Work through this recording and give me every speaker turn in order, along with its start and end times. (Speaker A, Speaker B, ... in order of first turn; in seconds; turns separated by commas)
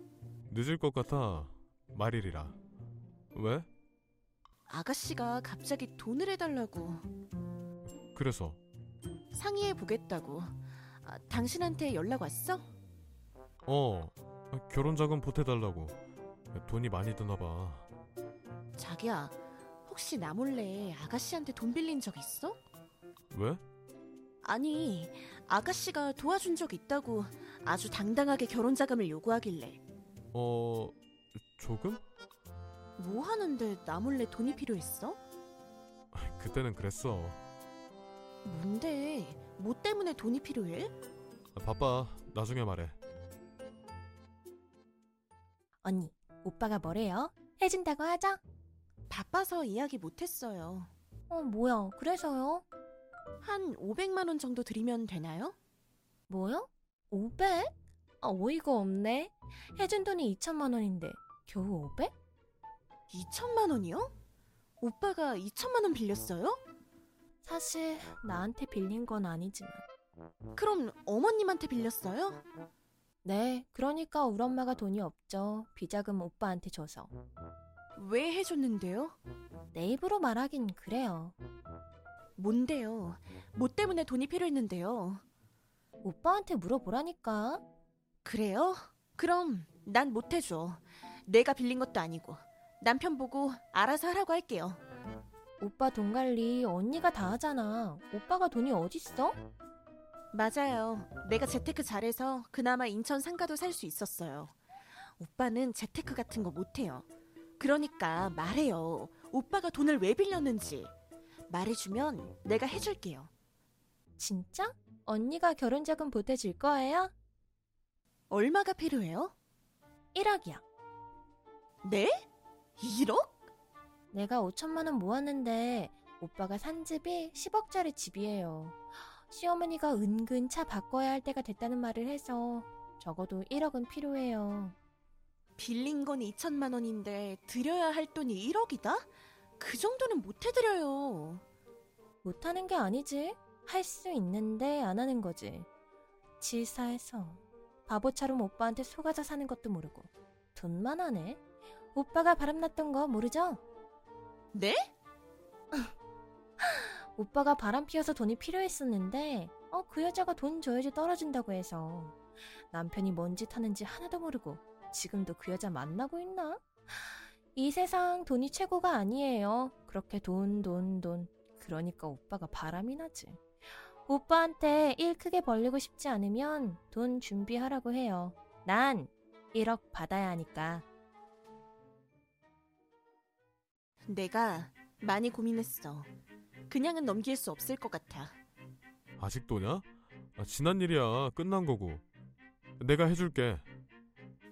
Speaker A: 0.5-2.6, Speaker A: 3.3-3.7, Speaker B: 4.7-7.1, Speaker A: 8.1-8.6, Speaker B: 9.3-12.7, Speaker A: 13.7-16.0, Speaker A: 16.5-17.9, Speaker B: 18.8-22.6, Speaker A: 23.3-23.6, Speaker B: 24.4-29.8, Speaker A: 30.3-31.0, Speaker A: 31.5-32.0, Speaker B: 33.0-35.2, Speaker A: 36.1-37.4, Speaker B: 38.4-40.9, Speaker A: 41.5-43.0, Speaker C: 45.8-48.4, Speaker B: 49.1-50.9, Speaker C: 51.3-52.6, Speaker B: 53.4-55.6, Speaker C: 56.3-62.1, Speaker B: 63.1-64.1, Speaker B: 64.8-66.6, Speaker C: 67.4-69.8, Speaker B: 70.5-72.4, Speaker C: 73.2-77.1, Speaker B: 78.0-79.2, Speaker C: 79.7-81.4, Speaker B: 82.4-85.2, Speaker C: 86.0-87.6, Speaker B: 88.2-94.8, Speaker C: 95.6-99.4, Speaker B: 100.3-104.5, Speaker B: 105.2-107.1, Speaker B: 107.6-110.9, Speaker B: 111.5-113.3, Speaker C: 114.2-117.1, Speaker B: 118.3-119.3, Speaker C: 120.1-120.6, Speaker B: 121.8-122.2, Speaker B: 122.8-123.4, Speaker C: 124.1-134.8, Speaker B: 135.6-139.1, Speaker B: 139.6-141.4, Speaker C: 142.2-145.7, Speaker C: 146.4-151.4, Speaker C: 151.9-153.6, Speaker B: 154.5-154.9, Speaker C: 156.6-162.2, Speaker C: 162.7-173.4, Speaker C: 174.0-180.8, Speaker B: 184.1-186.1, Speaker B: 186.7-188.4, Speaker A: 189.2-192.0, Speaker A: 192.8-193.6